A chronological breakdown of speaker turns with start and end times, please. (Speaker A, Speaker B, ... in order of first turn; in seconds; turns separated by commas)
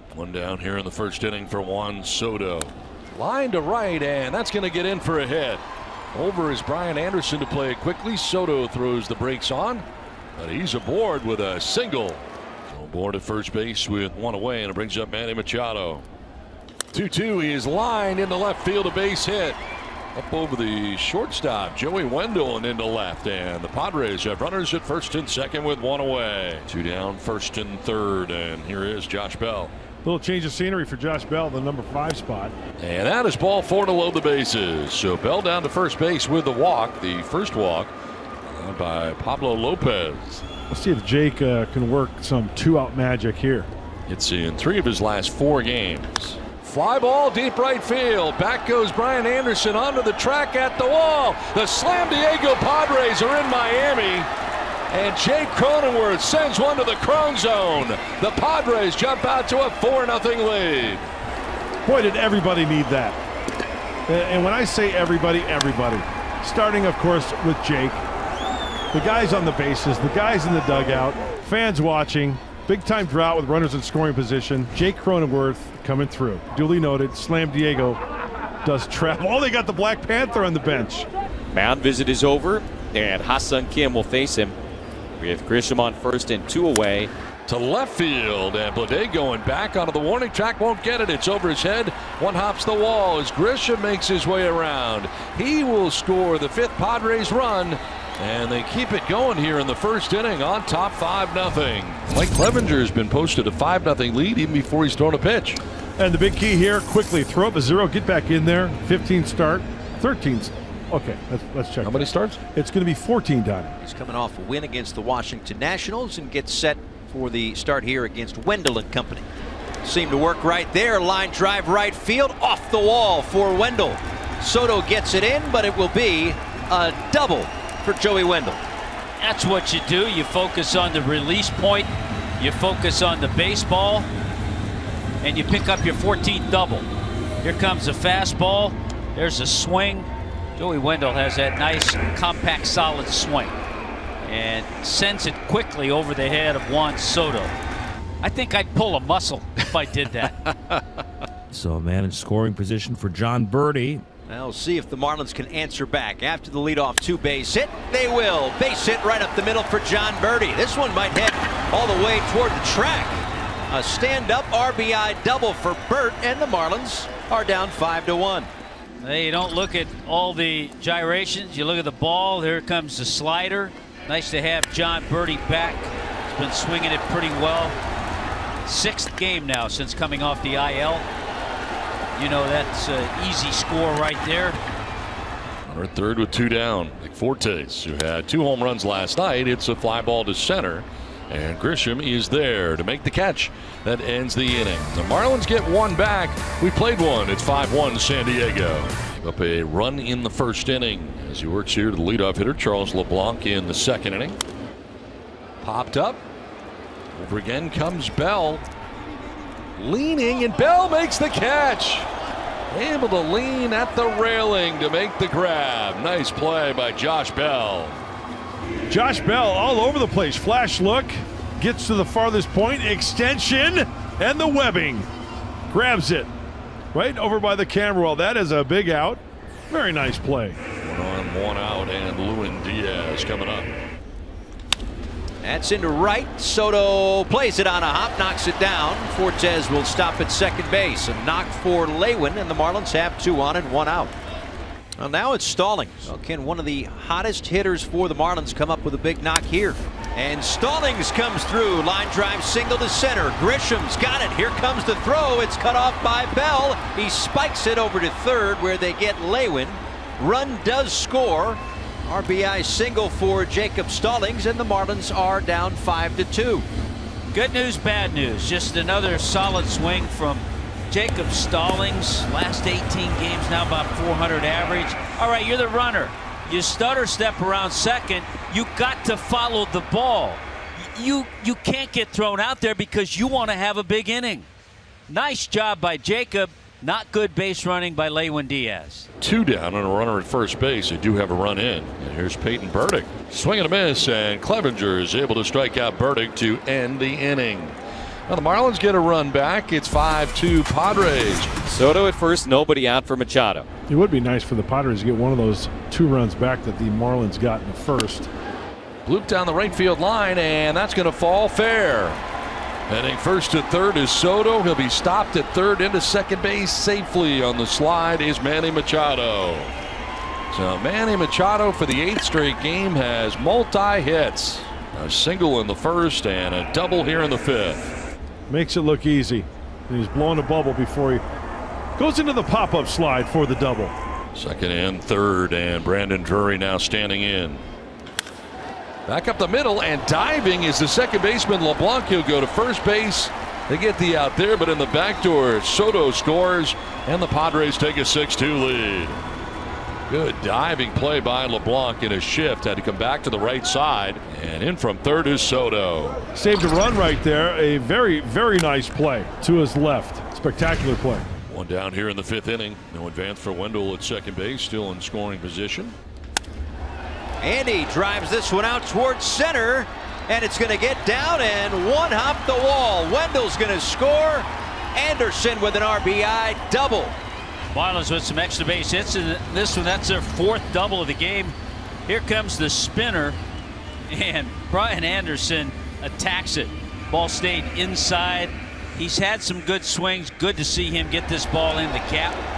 Speaker A: 0.1-5.6, Speaker A: 6.1-9.8, Speaker A: 10.3-16.1, Speaker A: 16.9-19.6, Speaker A: 20.1-29.7, Speaker B: 30.0-32.5, Speaker A: 32.8-37.9, Speaker A: 38.5-40.4, Speaker B: 40.7-43.7, Speaker A: 44.1-54.3, Speaker A: 54.9-61.1, Speaker B: 61.9-63.2, Speaker B: 64.1-68.0, Speaker B: 68.9-78.0, Speaker B: 78.6-81.1, Speaker C: 81.5-84.6, Speaker C: 85.2-87.1, Speaker A: 87.5-105.6, Speaker B: 106.0-113.8, Speaker A: 111.8-112.4, Speaker D: 113.8-119.3, Speaker D: 119.8-128.7, Speaker E: 129.2-134.1, Speaker E: 135.2-136.9, Speaker E: 137.4-143.6, Speaker E: 144.2-147.5, Speaker E: 148.2-150.3, Speaker F: 151.5-154.0, Speaker D: 154.3-168.5, Speaker E: 169.0-177.8, Speaker E: 178.6-181.1, Speaker E: 182.2-184.6, Speaker A: 185.7-204.4, Speaker A: 205.6-206.2, Speaker A: 207.1-208.7, Speaker A: 209.8-212.1, Speaker A: 212.7-218.0, Speaker B: 218.9-225.1, Speaker B: 225.7-226.3, Speaker B: 226.9-230.6, Speaker A: 230.8-233.7, Speaker D: 235.4-244.1, Speaker D: 245.0-266.6, Speaker E: 267.3-284.5, Speaker E: 285.1-289.1, Speaker A: 289.2-297.8, Speaker A: 298.3-301.5, Speaker C: 301.6-303.7, Speaker B: 303.9-308.3, Speaker A: 309.0-312.2, Speaker A: 312.9-319.7, Speaker A: 320.5-327.9, Speaker B: 328.5-331.2, Speaker B: 331.9-333.9, Speaker A: 334.3-337.6, Speaker A: 339.1-349.2, Speaker A: 350.1-356.2, Speaker B: 356.3-361.2, Speaker A: 361.5-365.9, Speaker D: 367.4-377.1, Speaker E: 377.7-381.5, Speaker E: 382.1-383.4, Speaker E: 384.1-392.4